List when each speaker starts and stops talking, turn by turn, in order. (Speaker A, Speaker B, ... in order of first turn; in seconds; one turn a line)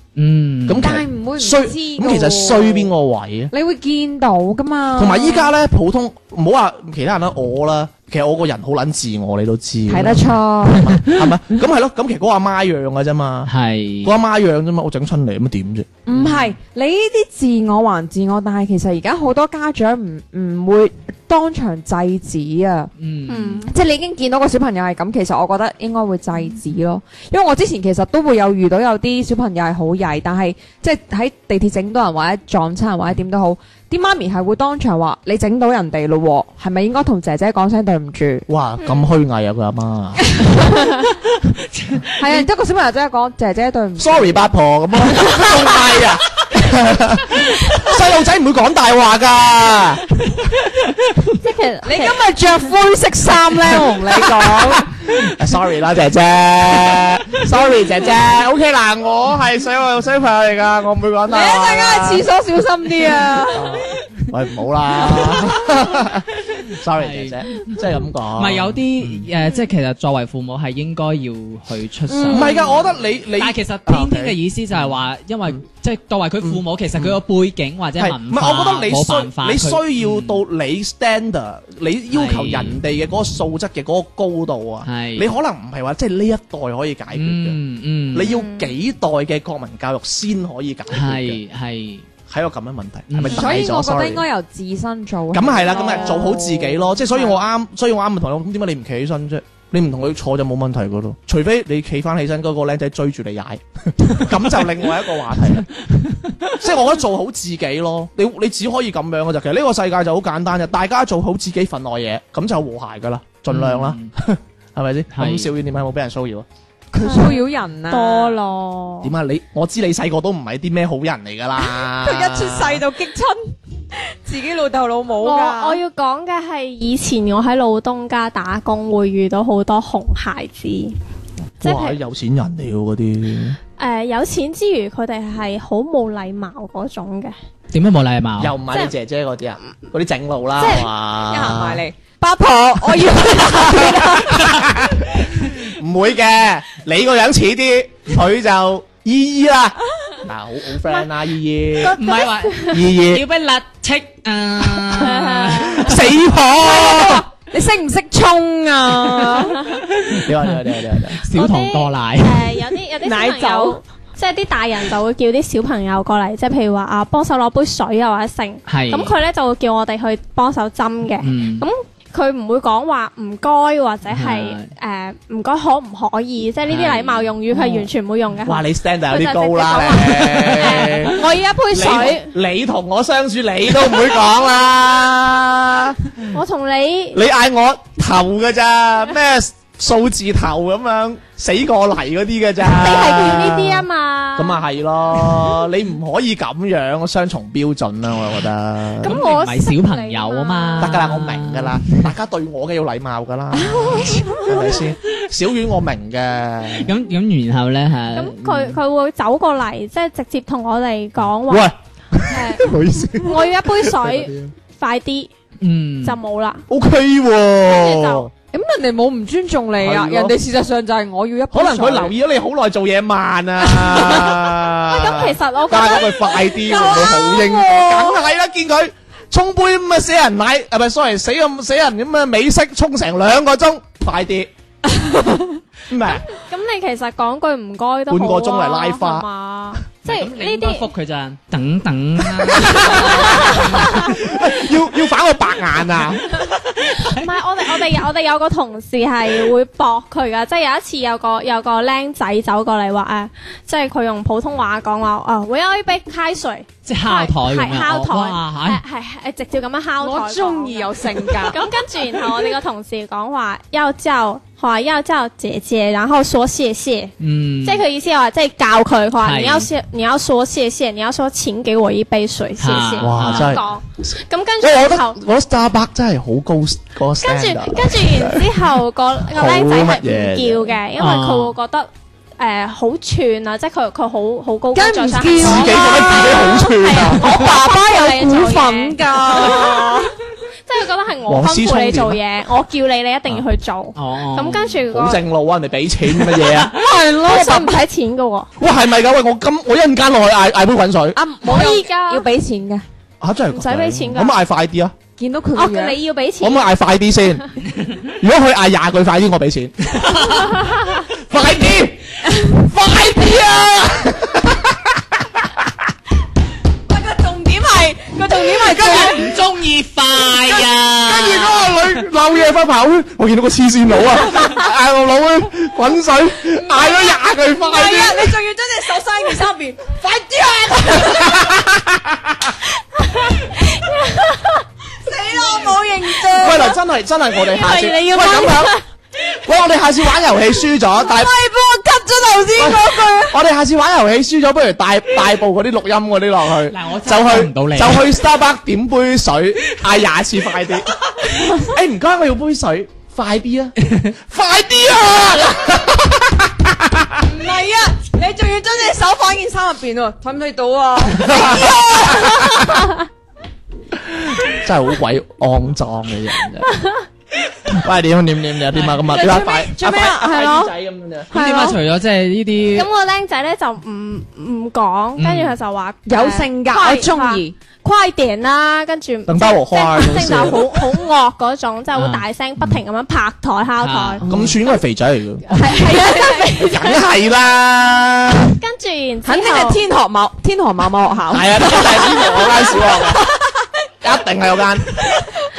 Speaker A: 0.2-1.0
Speaker B: 0.7-3.5
Speaker C: 0.8-2.9
Speaker C: 3.5-5.5
Speaker B: 5.0-13.5
Speaker C: 9.9-10.9
Speaker A: 13.5-14.2
Speaker B: 14.0-15.9
Speaker C: 16.1-22.9
Speaker A: 16.1-16.6
Speaker A: 23.0-23.6
Speaker D: 23.3-23.7
Speaker C: 23.6-38.5
Speaker B: 38.5-40.5
Speaker D: 38.8-39.1
Speaker C: 40.3-41.0
Speaker A: 41.8-42.0
Speaker C: 42.2-44.3
Speaker B: 44.0-50.4
Speaker C: 45.0-46.0
Speaker D: 51.4-52.2
Speaker C: 51.8-54.9
Speaker B: 53.5-62.3
Speaker C: 61.3-64.0
Speaker B: 63.1-69.3
Speaker C: 65.0-65.6
Speaker A: 66.8-67.8
Speaker A: 68.3-72.5
Speaker C: 72.1-72.9
Speaker B: 72.3-74.4
Speaker A: 73.3-80.4
Speaker B: 76.4-77.2
Speaker B: 78.0-87.6
Speaker A: 82.1-82.8
Speaker A: 84.8-85.3
Speaker A: 87.1-88.3
Speaker B: 88.1-91.4
Speaker D: 88.2-88.7
Speaker A: 90.9-92.1
Speaker B: 92.3-94.3
Speaker A: 93.1-93.5
Speaker C: 93.3-97.4
Speaker B: 95.3-105.8
Speaker A: 106.0-106.5
Speaker B: 106.5-116.5
Speaker A: 113.5-114.1
Speaker A: 115.1-115.5
Speaker C: 116.9-118.4
Speaker D: 117.0-119.1
Speaker B: 119.0-122.8
Speaker C: 121.6-125.8
Speaker D: 125.2-130.9
Speaker D: 131.6-132.0
Speaker B: 131.6-133.6
Speaker D: 133.8-137.3
Speaker A: 137.7-138.6
Speaker B: 138.4-141.8
Speaker C: 140.6-144.9
Speaker B: 142.9-152.0
Speaker D: 151.8-152.8
Speaker A: 151.9-156.0
Speaker B: 152.7-153.2
Speaker D: 154.9-155.9
Speaker B: 155.7-157.2
Speaker C: 156.6-159.6
Speaker A: 159.6-162.7
Speaker B: 160.1-161.2
Speaker D: 161.3-182.3
Speaker C: 163.0-163.8
Speaker A: 168.7-169.2
Speaker A: 171.2-171.7
Speaker A: 174.1-174.7
Speaker A: 176.7-177.3
Speaker B: 178.5-186.3
Speaker D: 186.3-187.2
Speaker B: 187.1-199.2
Speaker D: 192.7-194.6
Speaker D: 199.0-201.0
Speaker A: 199.0-202.1
Speaker B: 200.8-206.9
Speaker C: 203.5-204.8
Speaker A: 206.7-208.8
Speaker D: 208.1-211.7
Speaker B: 211.5-214.5
Speaker D: 212.3-215.3
Speaker A: 215.6-216.2
Speaker D: 216.0-216.7
Speaker B: 216.7-218.3
Speaker D: 217.7-218.3
Speaker C: 218.5-222.1
Speaker B: 219.8-220.4
Speaker B: 221.5-234.5
Speaker C: 223.7-224.4
Speaker D: 224.8-226.9
Speaker C: 226.5-228.2
Speaker C: 235.0-235.4
Speaker B: 235.9-236.2
Speaker D: 236.0-240.9
Speaker B: 238.1-239.3
Speaker A: 240.0-244.1
Speaker B: 242.5-246.4
Speaker D: 242.7-244.2
Speaker A: 246.4-247.3
Speaker D: 247.0-275.2
Speaker A: 256.9-258.8
Speaker C: 260.0-261.7
Speaker A: 267.2-267.8
Speaker A: 269.2-269.7
Speaker A: 272.6-273.6
Speaker B: 273.0-273.7
Speaker B: 274.6-280.8
Speaker D: 277.2-290.1
Speaker A: 281.0-281.6
Speaker C: 284.8-290.1
Speaker B: 285.4-287.5
Speaker D: 290.7-295.2
Speaker B: 291.3-292.2
Speaker A: 294.0-294.8
Speaker B: 294.9-296.8
Speaker C: 296.4-297.8
Speaker D: 297.0-298.5
Speaker B: 298.6-301.2
Speaker C: 301.1-302.9
Speaker D: 301.4-302.3
Speaker B: 303.2-304.9
Speaker D: 303.5-304.4
Speaker C: 305.2-306.0
Speaker D: 305.6-306.6
Speaker B: 306.4-307.5
Speaker B: 308.0-315.9
Speaker A: 310.0-310.6
Speaker C: 316.9-319.4
Speaker B: 318.6-319.2
Speaker A: 318.7-322.0
Speaker B: 321.0-328.4
Speaker C: 326.7-331.6
Speaker B: 331.0-332.5
Speaker D: 333.1-334.6
Speaker C: 334.9-336.8
Speaker B: 336.4-338.8
Speaker C: 337.5-338.6
Speaker B: 339.4-341.3
Speaker C: 340.9-343.4
Speaker B: 342.6-357.2
Speaker A: 346.7-348.1
Speaker C: 357.2-362.7
Speaker B: 361.1-362.9
Speaker B: 364.0-366.7
Speaker B: 367.6-371.3
Speaker A: 368.7-369.0
Speaker C: 369.0-370.7
Speaker C: 371.3-371.8
Speaker A: 371.3-372.9
Speaker D: 372.7-384.2
Speaker A: 375.2-375.6
Speaker C: 376.1-377.6
Speaker B: 379.3-380.9
Speaker A: 381.9-382.2
Speaker A: 383.8-384.6
Speaker B: 384.2-388.6
Speaker D: 385.5-387.0
Speaker C: 385.6-386.7
Speaker D: 388.6-389.8
Speaker C: 389.2-393.5
Speaker B: 391.3-393.2
Speaker B: 394.0-395.1